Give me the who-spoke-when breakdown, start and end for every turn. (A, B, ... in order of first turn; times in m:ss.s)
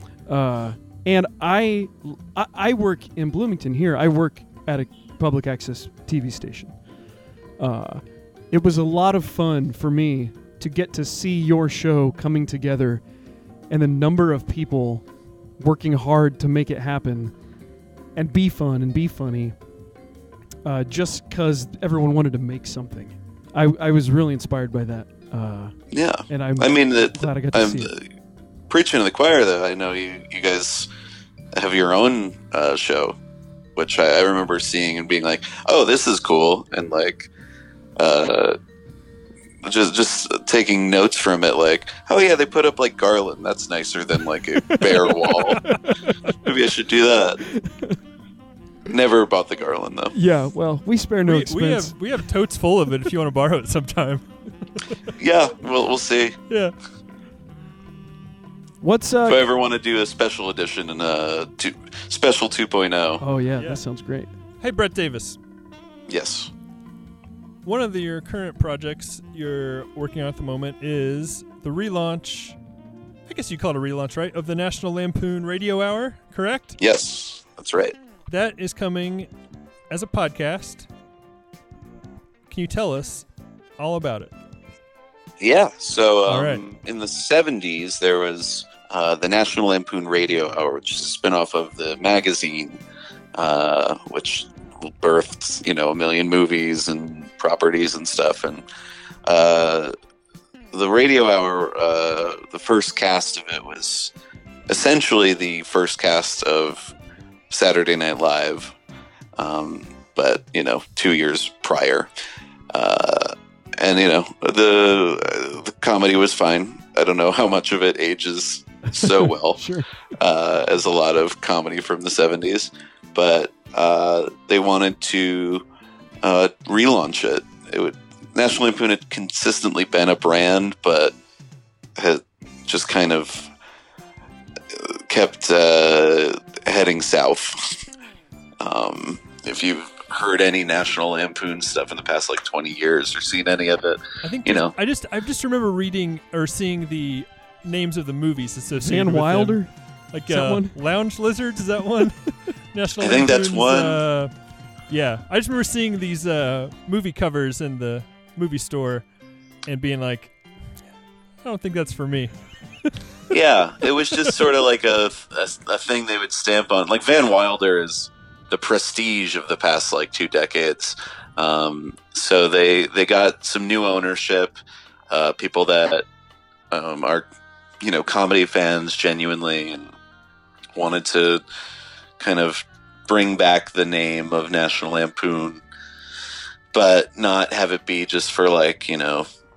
0:00.3-0:06.8 A
0:07.6-0:13.0 A
0:13.7-0:15.1 A
0:15.6-0:17.3 A
0:18.2-0:19.6 A
0:20.6-0:25.7 A
0:25.9-0:28.1 B
0:26.3-0:27.9 A
0:28.7-0:30.9 B
0:31.5-0:33.2 B
0:33.8-0:37.3 B
0:38.0-0:38.6 B
0:39.6-0:45.6 B
0:45.6-0:45.8 C
0:45.7-0:45.9 A
0:46.4-0:47.4 B
0:47.5-0:48.0 A
0:48.9-0:50.2 B
0:50.1-0:52.0 A
0:51.2-0:54.2 C
0:55.2-0:56.4 B
0:58.8-0:59.4 A
0:59.2-1:03.2 B
1:03.2-1:04.3 A
1:04.6-1:05.4 C
1:06.1-1:06.5 B
1:07.6-1:12.6 C
1:13.3-1:16.7 C
1:16.8-1:18.0 B
1:18.3-1:19.3 C
1:19.9-1:20.9 C
1:22.5-1:23.3 C
1:23.8-1:24.3 C
1:25.4-1:32.8 B
1:26.3-1:26.6 C
1:33.4-1:38.6 B
1:39.3-1:39.9 B
1:40.7-1:44.1 B
1:44.7-1:46.9 B
1:47.5-1:48.8 B
1:49.4-1:52.1 B
1:52.7-2:05.6 B
1:59.6-1:59.9 A
2:06.2-2:11.1 B
2:12.0-2:13.5 B
2:14.7-2:17.8 B
2:18.6-2:24.7 B
2:24.2-2:34.3 C
2:28.8-2:30.8 A
2:33.0-2:34.0 B
2:34.9-2:39.1 C
2:39.7-2:40.4 C
2:41.4-2:42.3 C
2:43.3-2:54.6 B
2:55.1-2:56.1 B
2:56.7-2:57.3 B
2:57.8-2:59.9 B
3:00.8-3:01.4 B
3:02.2-3:05.6 B
3:06.7-3:09.3 B